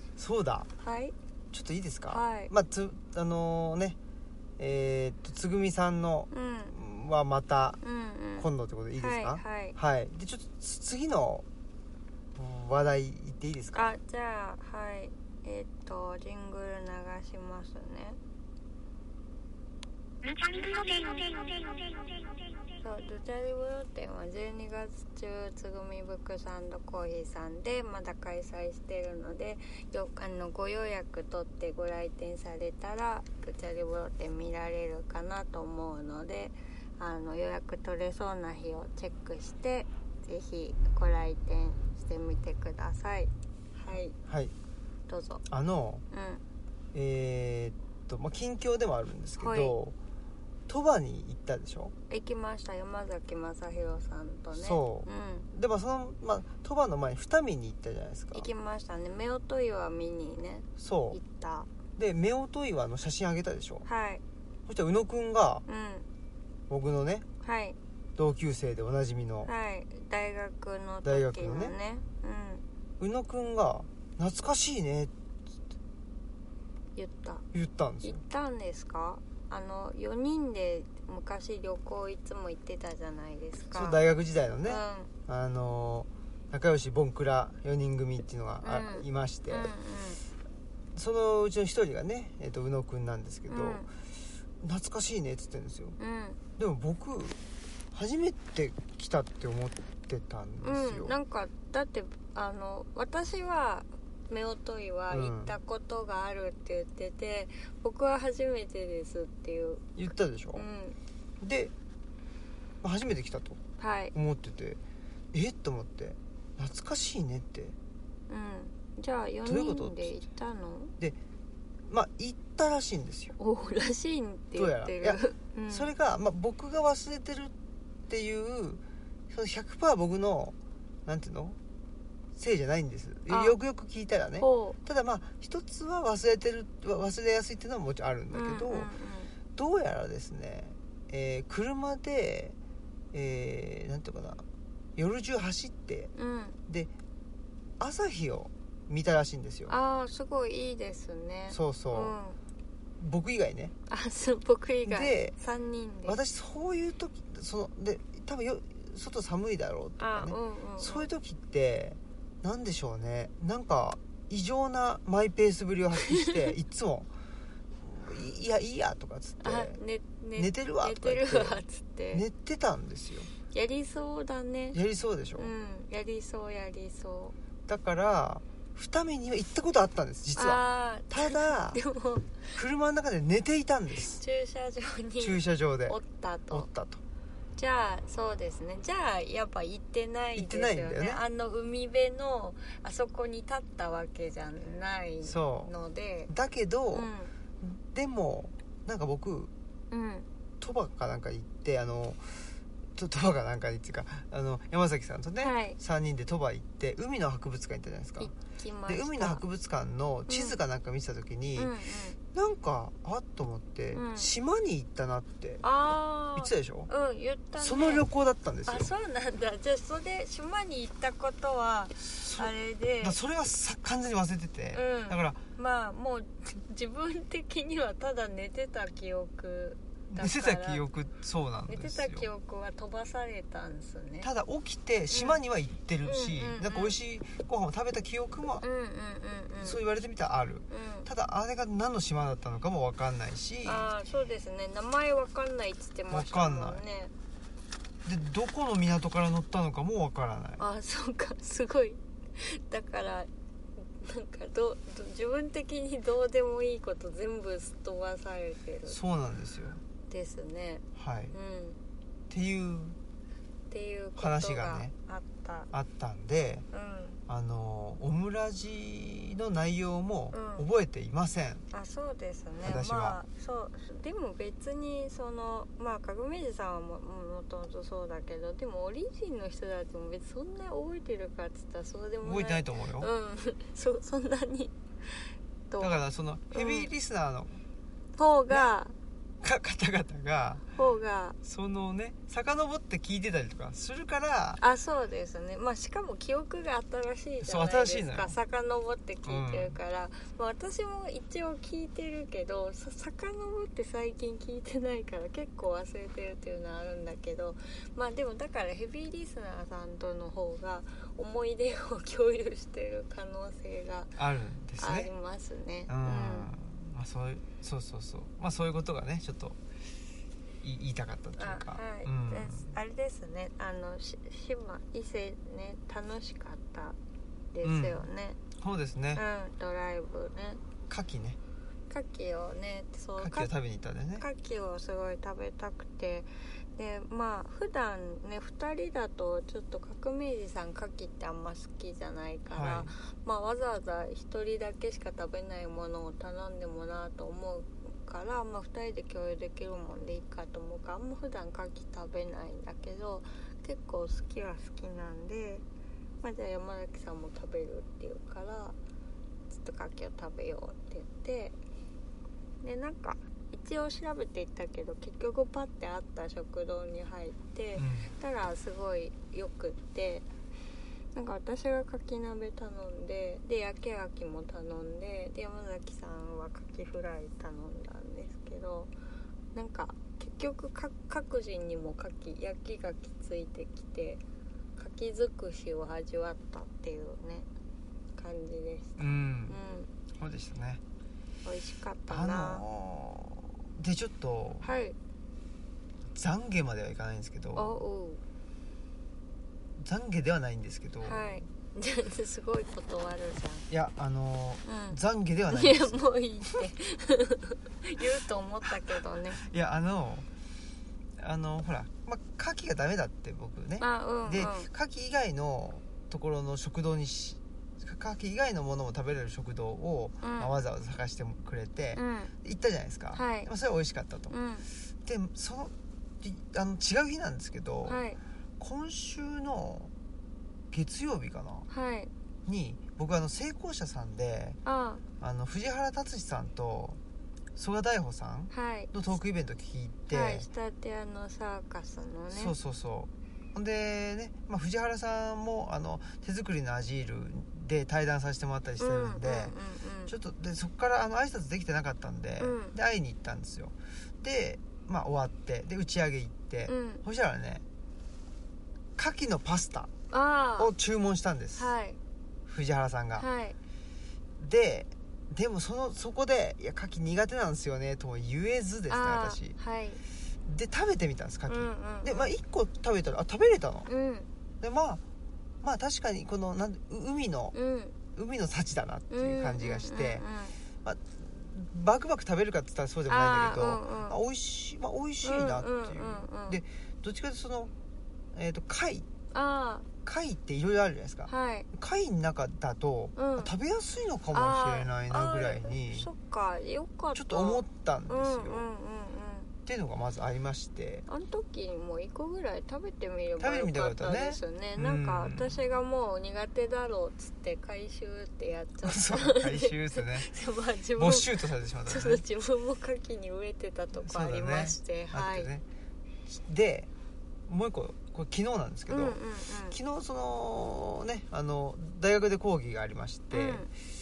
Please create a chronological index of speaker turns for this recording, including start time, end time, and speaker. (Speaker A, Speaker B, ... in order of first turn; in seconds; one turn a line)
Speaker A: 0.2-0.7
Speaker B: 0.8-1.1
Speaker A: 1.5-4.0
Speaker B: 2.1-2.5
Speaker A: 4.6-7.8
Speaker B: 6.3-6.7
Speaker B: 7.8-9.8
Speaker A: 8.4-11.4
Speaker A: 12.3-13.9
Speaker B: 13.7-18.2
Speaker C: 20.2-22.4
Speaker B: 22.8-44.1
Speaker A: 43.9-44.5
Speaker B: 45.1-45.4
Speaker A: 45.5-46.0
Speaker B: 46.1-46.4
Speaker A: 46.9-49.9
Speaker B: 49.4-49.8
Speaker A: 50.7-51.9
Speaker B: 52.1-55.5
Speaker A: 54.5-58.5
Speaker B: 58.3-61.7
Speaker A: 60.8-61.2
Speaker A: 62.0-63.9
Speaker B: 63.9-64.2
Speaker A: 64.7-65.6
Speaker B: 65.7-66.1
Speaker A: 66.7-67.2
Speaker B: 67.4-67.8
Speaker A: 68.2-69.5
Speaker B: 69.4-72.6
Speaker A: 71.0-71.8
Speaker A: 73.0-75.1
Speaker B: 77.0-77.4
Speaker A: 77.5-78.2
Speaker B: 78.0-84.0
Speaker A: 83.7-89.7
Speaker B: 84.7-85.1
Speaker B: 88.6-90.2
Speaker A: 90.9-93.9
Speaker B: 93.5-93.9
Speaker A: 94.6-96.0
Speaker B: 96.0-96.4
Speaker A: 96.6-97.4
Speaker A: 97.9-101.2
Speaker B: 100.6-110.0
Speaker A: 105.1-105.5
Speaker A: 110.0-110.7
Speaker B: 110.5-111.0
Speaker A: 111.4-111.7
Speaker A: 112.8-113.6
Speaker B: 113.8-114.1
Speaker A: 114.1-114.8
Speaker A: 115.3-117.8
Speaker B: 118.3-120.9
Speaker A: 119.4-120.2
Speaker A: 121.8-123.3
Speaker B: 123.4-125.9
Speaker A: 124.5-125.2
Speaker A: 125.7-127.5
Speaker A: 128.1-131.6
Speaker A: 132.3-138.9
Speaker B: 133.3-133.6
Speaker B: 134.4-134.8
Speaker B: 138.3-139.3
Speaker A: 139.5-142.6
Speaker A: 143.1-144.4
Speaker A: 144.9-146.1
Speaker B: 146.1-146.6
Speaker A: 147.8-149.8
Speaker B: 149.7-152.4
Speaker A: 151.5-152.2
Speaker A: 153.0-153.7
Speaker B: 153.9-156.2
Speaker A: 154.8-155.3
Speaker A: 156.1-167.1
Speaker B: 160.0-161.1
Speaker B: 166.0-166.3
Speaker A: 167.8-169.8
Speaker B: 169.4-172.2
Speaker A: 170.4-173.3
Speaker B: 173.5-174.8
Speaker A: 174.7-175.5
Speaker B: 175.4-177.3
Speaker A: 177.7-181.8
Speaker B: 180.3-182.6
Speaker A: 182.6-184.2
Speaker B: 184.2-186.7
Speaker A: 185.2-186.0
Speaker A: 186.5-187.0
Speaker B: 187.6-196.3
Speaker A: 190.3-191.2
Speaker A: 195.2-195.7
Speaker A: 196.3-199.5
Speaker B: 196.9-197.3
Speaker B: 199.9-200.3
Speaker A: 200.6-208.3
Speaker B: 205.4-205.8
Speaker B: 208.2-209.4
Speaker A: 208.9-211.7
Speaker B: 210.3-210.6
Speaker B: 211.6-212.2
Speaker A: 212.3-215.6
Speaker B: 213.9-214.3
Speaker B: 215.6-218.0
Speaker A: 216.3-216.9
Speaker A: 217.6-218.9
Speaker B: 218.7-223.2
Speaker A: 222.1-225.4
Speaker B: 224.7-230.8
Speaker A: 230.1-232.3
Speaker B: 231.7-234.3
Speaker A: 234.2-238.6
Speaker B: 235.1-235.4
Speaker B: 236.0-237.0
Speaker B: 238.6-239.8
Speaker A: 239.6-243.9
Speaker B: 240.7-241.1
Speaker B: 243.6-247.1
Speaker A: 246.1-246.8
Speaker A: 248.0-250.6
Speaker B: 250.6-259.0
Speaker A: 258.9-259.8
Speaker B: 260.1-261.8
Speaker A: 260.9-261.3
Speaker A: 262.3-263.0
Speaker B: 263.7-265.7
Speaker A: 264.1-264.9
Speaker A: 265.7-266.6
Speaker B: 266.7-267.2
Speaker A: 267.3-271.6
Speaker B: 270.3-270.6
Speaker B: 271.7-286.0
Speaker A: 272.6-273.2
Speaker A: 282.2-283.1
Speaker A: 285.8-287.6
Speaker B: 286.5-286.9
Speaker B: 288.1-288.9
Speaker A: 289.4-290.7
Speaker B: 290.7-291.4
Speaker A: 291.4-294.6
Speaker B: 294.6-314.1
Speaker A: 297.4-298.4
Speaker A: 299.2-299.8
Speaker A: 314.2-315.1
Speaker B: 314.8-316.5
Speaker A: 315.9-319.6
Speaker A: 320.6-322.7
Speaker B: 321.4-327.0
Speaker B: 327.5-328.4
Speaker A: 327.6-329.2
Speaker B: 329.1-330.6
Speaker A: 330.9-331.4
Speaker B: 331.9-333.5
Speaker A: 333.2-334.2
Speaker B: 334.2-355.6
Speaker A: 342.5-342.9
Speaker B: 356.2-358.8
Speaker B: 359.5-361.6
Speaker B: 362.6-370.2
Speaker A: 367.8-368.1
Speaker B: 371.1-378.9
Speaker B: 379.5-384.2
Speaker B: 384.8-387.5
Speaker B: 388.1-389.9
Speaker A: 389.0-389.6
Speaker A: 390.1-390.8
Speaker B: 391.4-392.6
Speaker A: 392.1-394.7
Speaker B: 394.6-394.9
Speaker A: 396.1-397.8
Speaker B: 397.5-398.2
Speaker A: 399.8-401.4
Speaker B: 401.0-403.7
Speaker A: 403.7-406.0
Speaker B: 404.6-405.0
Speaker B: 405.5-409.4
Speaker A: 409.4-410.3
Speaker A: 411.2-424.3
Speaker B: 413.8-414.7
Speaker B: 420.2-420.5
Speaker B: 421.9-422.3
Speaker B: 423.1-423.5
Speaker B: 424.3-424.7
Speaker A: 425.0-428.0
Speaker B: 427.9-428.2
Speaker A: 428.6-429.9
Speaker A: 430.7-431.7
Speaker B: 431.7-432.1
Speaker A: 432.4-434.6
Speaker B: 434.6-435.0
Speaker A: 435.2-437.0
Speaker A: 437.6-440.5
Speaker B: 438.5-438.9
Speaker B: 440.1-442.5
Speaker A: 442.3-449.5
Speaker B: 448.8-450.1
Speaker A: 450.1-457.6
Speaker B: 452.4-452.7
Speaker B: 456.7-457.0
Speaker A: 459.0-459.9
Speaker B: 460.1-460.7
Speaker A: 460.6-461.7
Speaker B: 461.6-462.0
Speaker A: 462.5-463.3
Speaker B: 463.1-463.6
Speaker A: 464.4-469.6
Speaker B: 468.9-470.0
Speaker A: 470.4-473.9
Speaker B: 471.5-472.3
Speaker B: 473.9-474.3
Speaker A: 474.6-475.0
Speaker A: 475.6-477.5
Speaker B: 477.5-478.0
Speaker A: 478.1-480.2
Speaker B: 479.1-480.6
Speaker A: 480.8-487.7
Speaker B: 483.1-484.2
Speaker B: 485.2-486.6
Speaker A: 488.3-489.1
Speaker B: 489.3-489.9
Speaker A: 490.0-496.1
Speaker B: 491.3-491.7
Speaker B: 493.1-493.5
Speaker B: 494.3-499.5
Speaker A: 497.1-498.6
Speaker A: 499.6-501.1
Speaker B: 501.1-515.5
Speaker A: 503.4-505.6
Speaker A: 508.8-510.3
Speaker A: 511.0-512.2
Speaker A: 514.0-515.6
Speaker A: 516.3-516.9
Speaker A: 517.5-519.2
Speaker B: 518.9-519.8
Speaker A: 519.7-523.7
Speaker B: 523.3-523.7